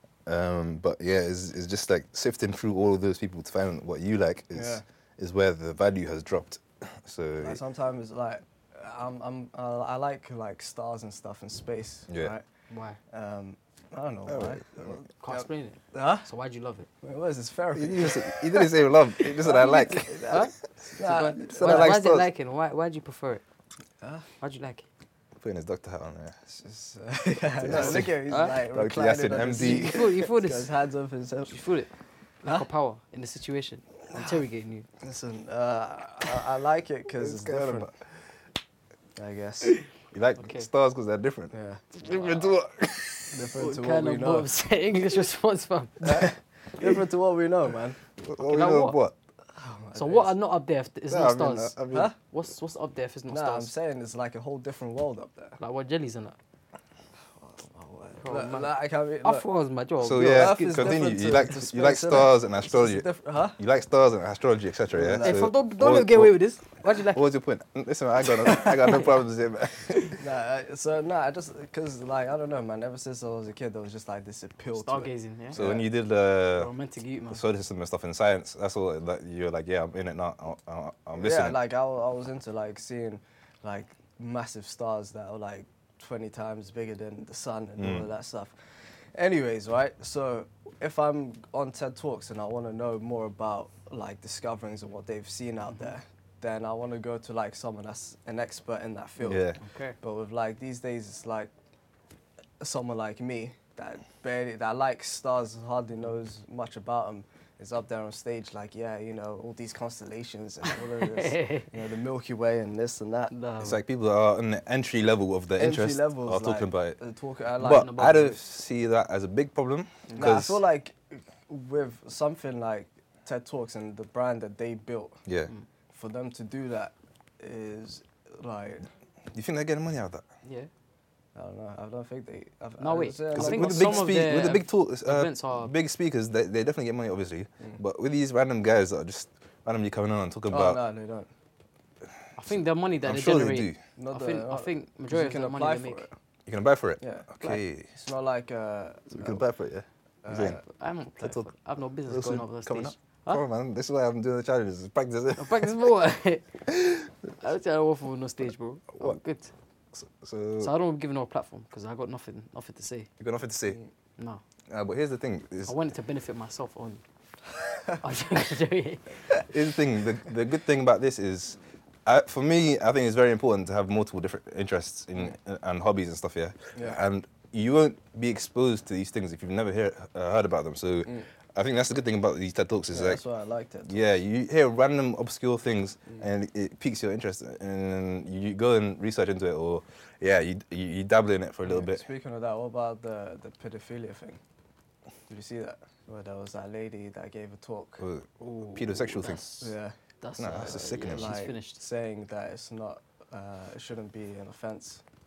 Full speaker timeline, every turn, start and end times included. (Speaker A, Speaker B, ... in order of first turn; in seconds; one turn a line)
Speaker A: 0.2-7.6
Speaker B: 4.5-4.8
Speaker B: 7.4-12.4
Speaker A: 12.1-12.3
Speaker C: 12.7-13.0
Speaker B: 13.1-16.3
Speaker A: 14.3-14.9
Speaker C: 15.2-16.9
Speaker B: 17.0-22.0
Speaker A: 17.7-20.4
Speaker C: 20.2-23.4
Speaker A: 21.4-22.3
Speaker B: 24.0-24.3
Speaker C: 24.4-24.8
Speaker A: 25.4-26.5
Speaker B: 26.5-31.6
Speaker A: 27.6-30.1
Speaker C: 27.7-28.6
Speaker C: 29.5-30.7
Speaker C: 31.5-31.9
Speaker C: 32.4-34.9
Speaker B: 35.0-37.9
Speaker A: 37.2-37.9
Speaker B: 39.1-39.8
Speaker A: 40.1-43.4
Speaker C: 40.4-40.7
Speaker B: 41.5-41.8
Speaker C: 42.0-42.4
Speaker B: 43.3-44.5
Speaker C: 43.6-46.3
Speaker B: 46.0-48.0
Speaker A: 48.2-49.1
Speaker C: 48.4-49.0
Speaker B: 49.5-50.3
Speaker C: 49.9-53.7
Speaker A: 51.1-52.1
Speaker B: 53.3-55.6
Speaker C: 55.6-56.4
Speaker B: 57.4-59.4
Speaker C: 58.2-60.9
Speaker A: 60.0-66.4
Speaker B: 60.1-63.6
Speaker B: 64.9-65.5
Speaker C: 65.2-67.2
Speaker A: 66.9-70.2
Speaker C: 68.4-69.1
Speaker B: 70.1-75.8
Speaker C: 74.7-75.7
Speaker A: 75.5-76.7
Speaker C: 76.5-77.4
Speaker A: 77.3-81.6
Speaker B: 81.2-88.5
Speaker A: 87.8-88.1
Speaker B: 89.1-99.4
Speaker A: 99.2-99.6
Speaker C: 99.6-100.0
Speaker B: 100.0-101.5
Speaker B: 102.6-113.3
Speaker C: 111.2-111.7
Speaker C: 113.3-113.8
Speaker A: 113.6-117.0
Speaker B: 115.6-118.0
Speaker A: 117.6-120.6
Speaker C: 117.6-118.3
Speaker C: 120.1-120.4
Speaker B: 120.2-125.2
Speaker A: 125.2-125.5
Speaker B: 125.9-128.8
Speaker A: 129.3-130.2
Speaker C: 130.4-130.7
Speaker B: 131.3-134.2
Speaker C: 132.8-135.7
Speaker A: 133.3-140.8
Speaker B: 140.5-141.3
Speaker C: 142.3-146.1
Speaker A: 143.0-143.8
Speaker B: 144.0-146.1
Speaker A: 146.4-147.9
Speaker B: 147.0-149.4
Speaker A: 149.1-150.6
Speaker B: 150.2-150.6
Speaker C: 150.3-153.4
Speaker A: 151.2-151.5
Speaker A: 152.1-155.7
Speaker C: 155.4-156.6
Speaker C: 157.4-159.5
Speaker A: 159.9-160.7
Speaker C: 160.6-163.1
Speaker A: 163.2-163.8
Speaker A: 164.7-165.7
Speaker C: 165.6-167.0
Speaker C: 167.9-169.4
Speaker A: 169.5-183.2
Speaker B: 182.9-184.0
Speaker A: 183.9-192.1
Speaker B: 191.7-194.4
Speaker B: 195.3-198.0
Speaker A: 198.0-199.4
Speaker C: 198.5-201.8
Speaker B: 199.6-199.9
Speaker A: 200.4-201.4
Speaker B: 200.9-205.0